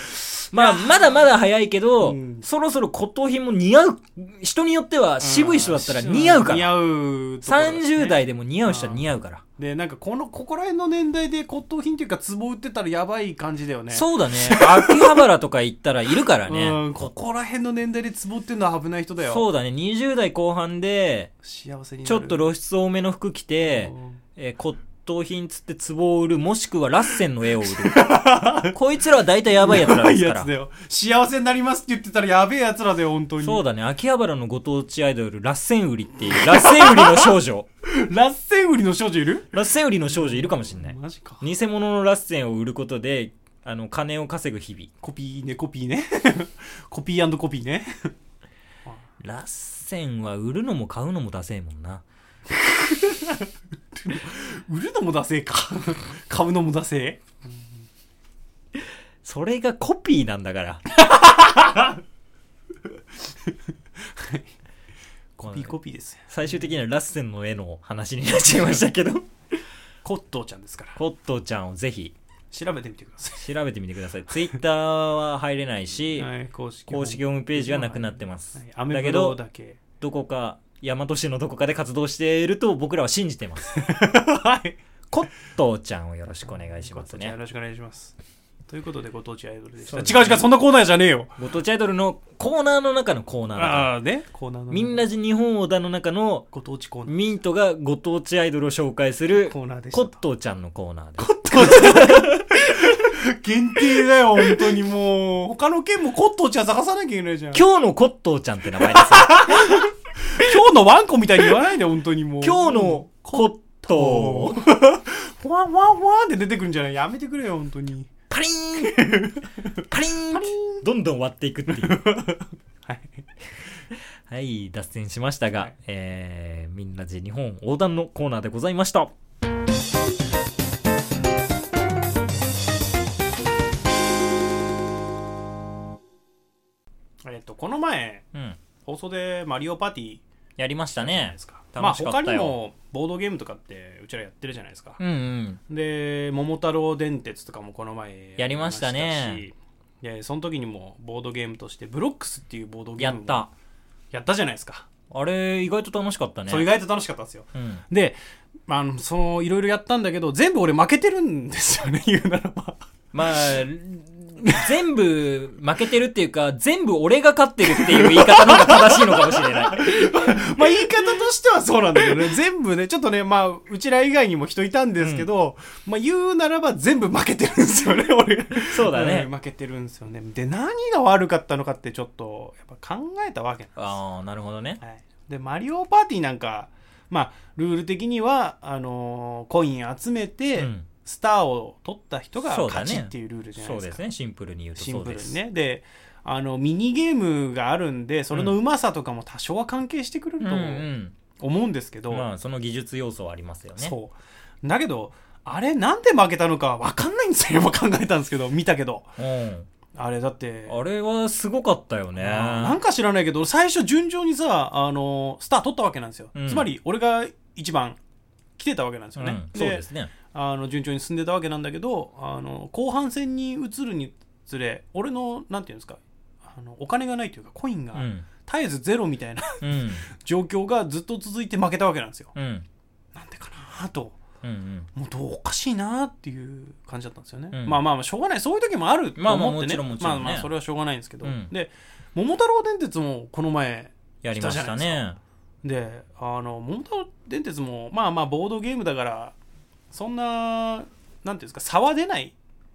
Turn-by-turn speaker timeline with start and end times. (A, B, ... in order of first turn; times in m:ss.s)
0:00.4-0:06.7 A
0:00.5-0:01.1 B
0:02.0-0:02.4 B
0:05.2-0:09.0 B
0:07.4-0:09.4 A
0:09.6-0:15.2 B
0:13.9-0:17.1 A
0:16.5-0:19.4 B
0:19.2-0:21.3 A
0:21.4-0:22.4 B
0:22.0-0:30.5 A
0:23.6-0:24.2 B
0:27.6-0:28.8 B
0:29.6-0:33.6 B
0:33.4-0:37.7 A
0:36.3-0:39.5 B
0:39.5-0:44.9 A
0:40.1-0:41.4 B
0:45.0-0:48.1 B
0:49.2-0:52.0 A
0:52.5-0:57.6 B
0:59.2-1:00.8 A
1:01.0-1:02.0 B
1:03.4-1:04.5 B
1:05.4-1:06.3 B
1:05.4-1:05.7 A
1:06.3-1:09.3 A
1:10.0-1:11.0 B
1:11.0-1:12.1 A
1:12.5-1:13.5 B
1:13.4-1:16.3 A
1:16.1-1:19.8 B
1:16.9-1:19.4 A
1:20.0-1:23.8 A
1:23.7-1:24.8 B
1:25.1-1:27.3 A
1:26.5-1:28.2 B
1:28.7-1:31.3 B
1:29.8-1:30.5 A
1:31.4-1:33.9 A
1:33.5-1:35.0 B
1:34.7-1:36.5 A
1:36.5-1:37.2 B
1:37.0-1:42.9 A
1:39.5-1:40.2 B
1:41.2-1:47.6 B
1:47.5-1:49.9 A
1:48.8-1:58.1 B
1:52.4-1:54.6 A
1:58.3-1:59.3 A
1:58.8-2:00.8 B
1:59.9-2:02.0 A
2:01.7-2:03.2 B
2:04.3-2:09.1 A
2:17.2-2:18.2 B
2:18.8-2:20.2 B
2:20.6-2:22.6 A
2:20.9-2:25.0 B
2:25.0-2:25.6 A
2:25.7-2:33.4 B
2:28.4-2:29.4 A
2:33.0-2:33.5 A
2:34.1-2:34.9 B
2:35.1-2:36.7 A
2:36.5-2:42.8 B
2:37.5-2:37.8 A
2:43.1-2:50.4 A
2:44.4-2:44.6 B
2:47.7-3:03.9 B
2:55.0-2:55.3 A
2:58.5-2:59.3 A
3:03.8-3:04.8 A
3:04.8-3:14.0 B
3:10.6-3:10.9 A
3:12.4-3:15.4 A
3:14.8-3:22.3 B
3:18.3-3:18.6 A
3:20.4-3:21.2 A
3:22.1-3:23.9 A
3:23.8-3:29.1 B
3:29.2-3:29.7 A
3:29.9-3:30.8 B
3:30.7-3:32.8 A
3:32.2-3:38.0 B
3:36.3-3:36.7 A
3:38.6-3:52.3 B
3:39.2-3:40.1 A
3:47.9-3:48.3 A
3:49.6-3:50.1 A
3:52.3-3:52.6 A
3:53.1-3:54.2 B
3:54.4-3:54.9 A
3:54.9-4:05.0 B
3:57.5-3:57.8 A
3:59.2-4:00.5 A
4:01.2-4:01.5 A
4:04.2-4:05.2 A
4:05.6-4:09.4 B
4:09.9-4:12.3 B